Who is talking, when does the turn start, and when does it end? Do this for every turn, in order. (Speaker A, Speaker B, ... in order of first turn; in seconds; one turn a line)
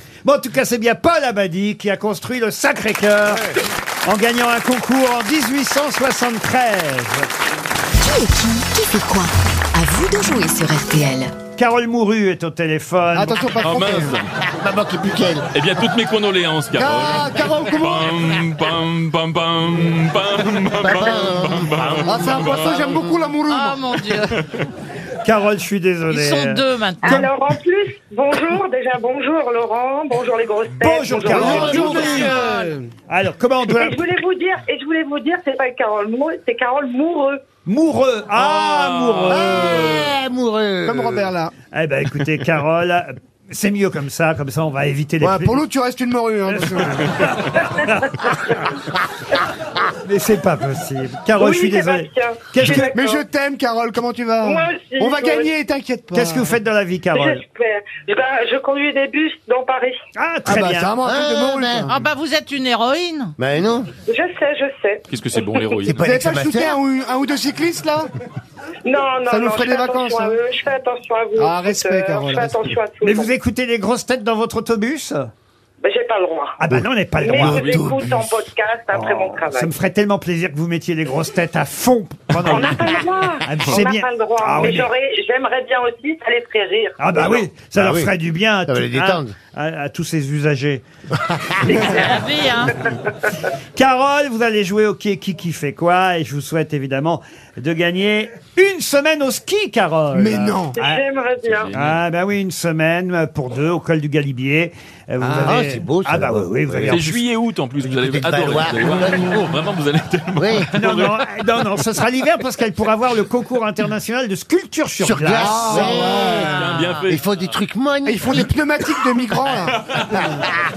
Speaker A: 0.2-7.3
Speaker B: 8.0-11.4
Speaker A: 11.6-13.5
Speaker C: 13.1-14.1
Speaker D: 13.6-14.3
Speaker E: 14.5-15.4
Speaker D: 15.5-22.9
Speaker C: 16.8-18.1
Speaker E: 20.8-23.1
Speaker C: 22.0-23.8
Speaker F: 23.5-24.4
Speaker D: 24.3-24.7
Speaker A: 25.2-27.3
Speaker F: 26.1-27.3
Speaker G: 27.1-31.8
Speaker A: 30.8-32.4
Speaker E: 31.3-32.3
Speaker C: 31.3-32.9
Speaker F: 31.8-32.8
Speaker A: 33.1-34.0
Speaker G: 33.7-37.4
Speaker A: 37.7-40.0
Speaker D: 38.6-39.6
Speaker E: 39.3-41.3
Speaker C: 40.9-41.5
Speaker A: 41.7-45.6
Speaker C: 45.2-47.1
Speaker A: 46.6-48.5
Speaker A: 50.1-52.9
Speaker G: 51.4-53.2
Speaker C: 52.9-56.6
Speaker G: 54.4-55.5
Speaker A: 56.1-57.4
Speaker G: 57.1-60.0
Speaker A: 60.2-60.9
Speaker C: 60.5-62.0
Speaker E: 61.0-61.9
Speaker F: 61.9-63.4
Speaker E: 63.4-63.9
Speaker G: 64.1-65.7
Speaker D: 65.1-66.0
Speaker E: 65.8-66.8
Speaker C: 66.0-68.1
Speaker G: 68.8-73.3
Speaker C: 69.3-70.4
Speaker C: 71.4-72.8
Speaker A: 73.0-75.3
Speaker G: 75.8-76.6
Speaker A: 76.6-77.9
Speaker E: 76.7-78.4
Speaker G: 77.2-79.7
Speaker A: 78.9-84.9
Speaker G: 82.5-87.2
Speaker A: 87.0-90.8
Speaker E: 87.2-88.1
Speaker E: 88.7-89.3
Speaker E: 91.3-91.8
Speaker F: 91.8-92.8
Speaker A: 93.8-101.0
Speaker C: 100.1-100.8
Speaker G: 100.8-101.7
Speaker D: 101.4-102.0
Speaker A: 101.7-107.2
Speaker E: 105.3-107.0
Speaker D: 106.9-111.1
Speaker E: 107.8-109.5
Speaker E: 110.4-110.7
Speaker A: 110.8-116.1
Speaker E: 115.0-118.5
Speaker C: 115.3-116.6
Speaker D: 116.3-117.4
Speaker C: 118.1-119.8